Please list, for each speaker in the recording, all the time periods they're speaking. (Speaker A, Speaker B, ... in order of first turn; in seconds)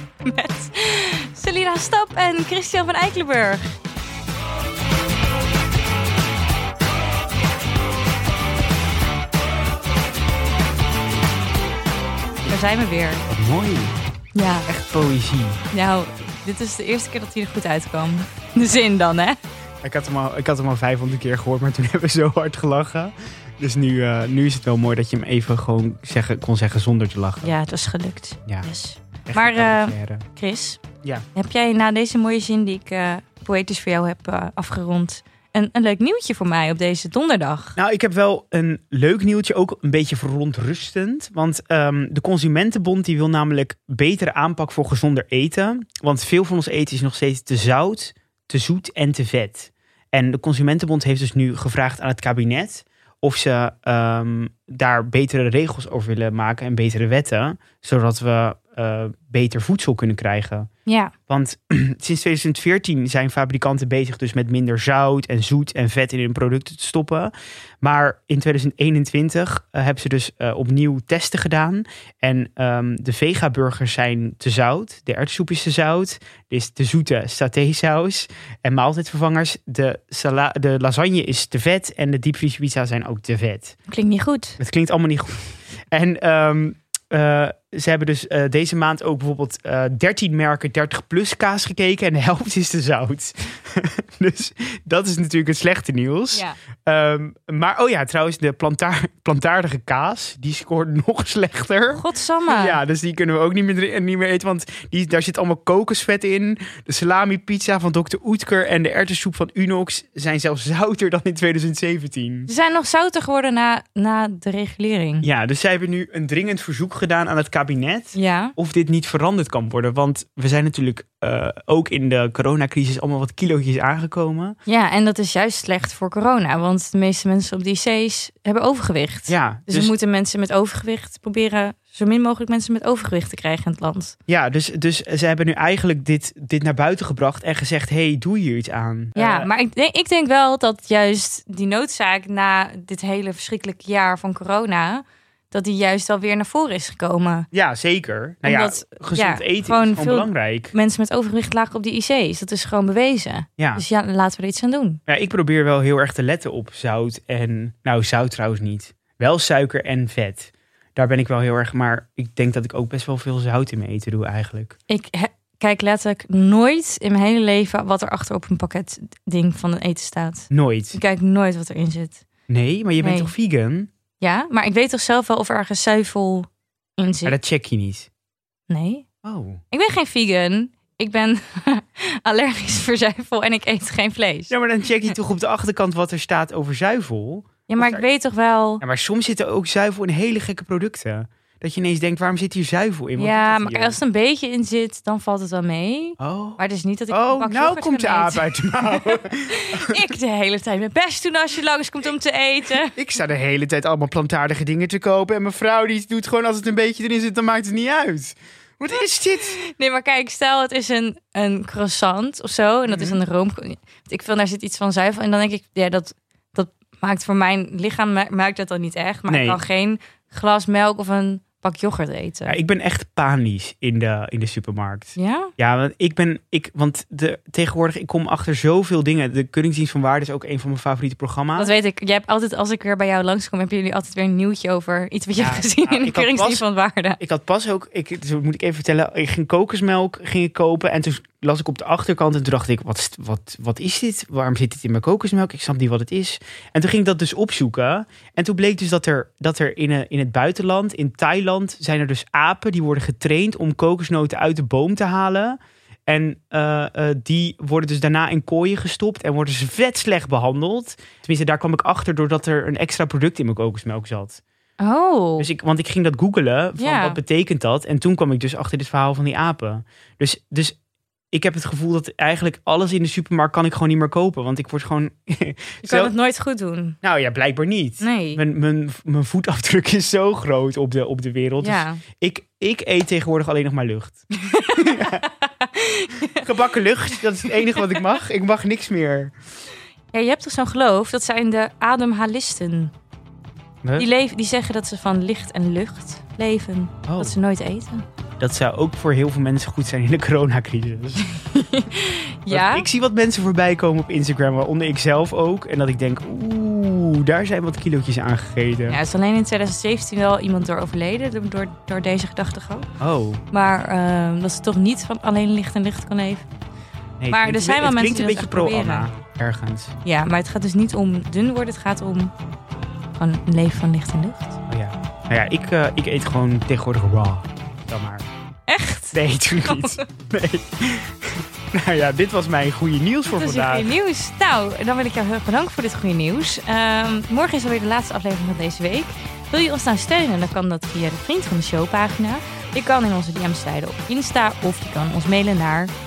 Speaker A: 0.2-3.7, 12.4-13.2, 14.3-14.7, 15.7-19.4, 27.4-30.8, 31.3-37.8, 60.9-61.1, 83.9-84.6, 101.9-102.8, 112.5-115.2, 118.1-118.5, 124.7-134.1, 139.1-147.5, 148.4-155.0, 164.9-172.2, 173.0-173.3, 174.2-177.3, 178.7-179.0, 179.7-184.5, 187.7-188.8, 193.2-202.9, 209.6-222.6, 225.2-225.5, 231.6-237.2, 264.8-265.5, 266.8-267.2, 275.8-277.0, 278.0-278.4, 281.6-282.0, 284.4-286.5, 287.5-288.0, 290.1-292.9, 293.9-298.0, 301.4-302.9, 308.9-312.9, 313.5-316.4, 317.3-319.1, 320.0-322.3, 323.2-324.6, 328.7-330.1, 333.3-345.9
Speaker B: 13.3-14.0, 14.7-15.6, 19.8-27.5, 29.2-30.2, 37.8-60.7, 61.3-83.8, 84.6-85.3, 85.9-112.5, 115.2-124.5, 129.3-129.9, 134.3-139.5, 147.5-150.7, 153.6-153.8, 155.1-164.8, 170.5-171.0, 172.5-173.9, 177.2-178.1, 179.2-179.6, 184.5-188.0, 188.8-194.0, 196.2-200.0, 202.9-209.6, 212.9-213.2, 219.3-219.6, 222.5-231.7, 235.4-236.6, 237.2-264.4, 265.4-270.8, 271.3-276.1, 277.0-285.2, 286.3-289.3, 297.1-297.4, 298.4-301.3, 302.5-309.0, 313.0-313.4, 317.2-319.9, 324.7-328.3, 329.1-333.9